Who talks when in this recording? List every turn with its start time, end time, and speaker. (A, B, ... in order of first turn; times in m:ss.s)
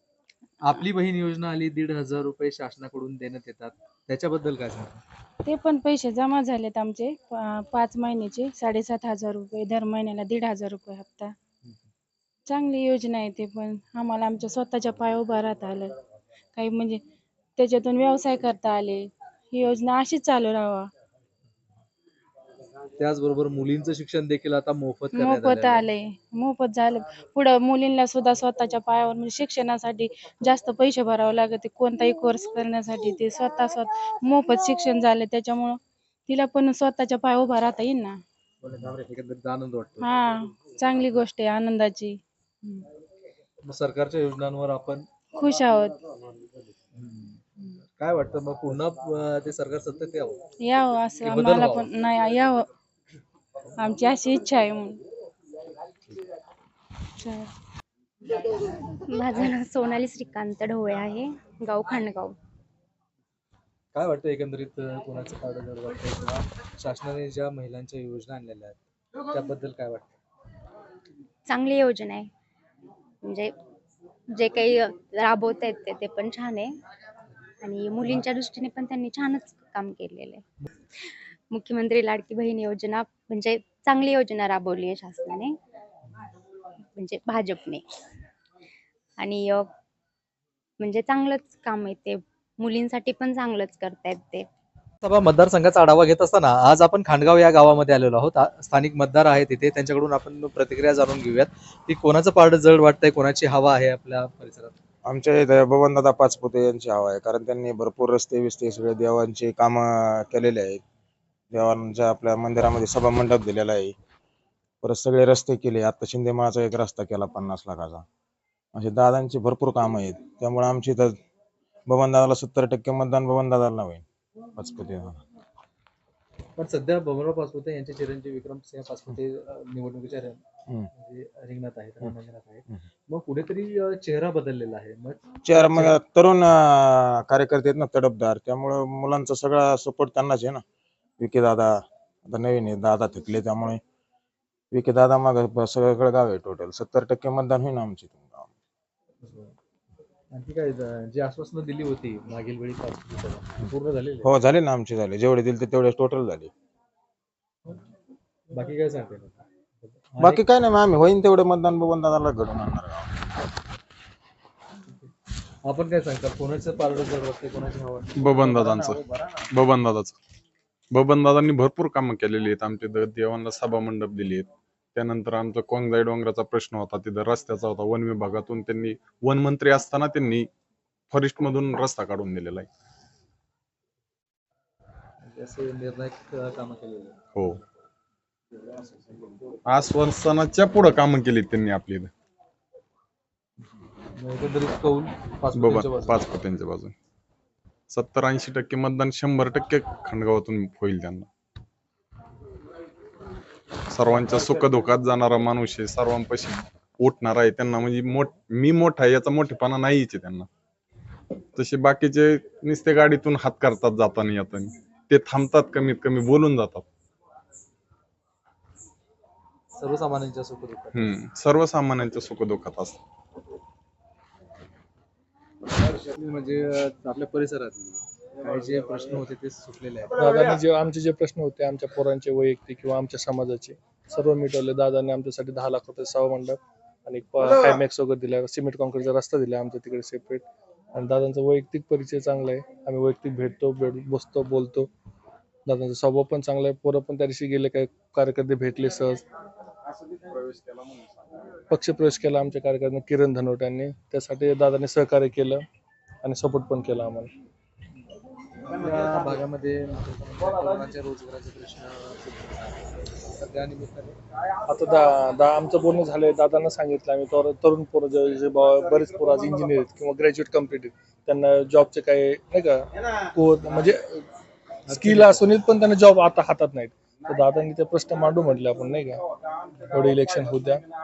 0:00.6-0:05.0 A
0:05.4-0:11.4 B
0:12.5-0:15.9 B
0:16.6-0:17.0 B
0:17.6-0:20.9 B
0:23.0-0:25.8 A
0:25.1-0:38.2 B
0:38.6-0:40.1 A
0:40.0-0:42.9 B
0:43.6-0:45.1 A
0:45.4-0:46.0 B
0:47.0-0:47.4 A
0:48.0-0:50.4 A
0:50.6-0:52.7 B
0:51.2-0:51.9 A
0:53.8-0:55.0 B
0:57.2-0:57.5 B
0:58.8-1:02.4 C
1:03.9-1:10.2 A
1:11.5-1:12.3 C
1:13.2-1:13.5 C
1:14.3-1:16.7 C
1:17.6-1:20.4 C
1:21.0-1:25.6 C
1:27.0-1:27.8 C
1:29.2-1:29.7 C
1:30.8-1:34.5 C
1:35.0-1:44.7 A
1:45.0-1:50.8 D
1:51.5-1:54.0 D
1:54.8-1:58.0 D
1:58.8-2:01.2 D
2:01.9-2:04.0 D
2:04.6-2:05.2 D
2:06.6-2:10.4 A
2:10.9-2:16.0 A
2:15.4-2:20.6 D
2:21.2-2:23.8 D
2:24.7-2:28.5 D
2:29.2-2:29.5 A
2:30.3-2:34.3 A
2:34.2-2:36.5 D
2:38.5-2:40.4 A
2:40.2-2:43.2 D
2:45.6-2:49.1 A
2:48.2-2:49.0 E
2:49.5-2:50.2 E
2:50.9-3:00.5 E
3:01.1-3:02.7 E
3:05.2-3:07.2 A
3:09.7-3:12.1 E
3:14.2-3:16.2 A
3:15.5-3:16.9 E
3:17.9-3:21.3 E
3:23.9-3:30.5 E
3:31.6-3:36.9 E
3:39.8-3:41.1 A
3:41.0-3:43.0 E
3:45.8-3:50.2 A
3:50.2-4:04.9 F
4:05.7-4:09.2 F
4:11.7-4:15.6 F
4:16.2-4:17.3 F
4:18.6-4:24.2 A
4:24.7-4:34.2 F
4:34.9-4:35.5 A
4:34.9-4:39.2 F
4:39.9-4:40.8 F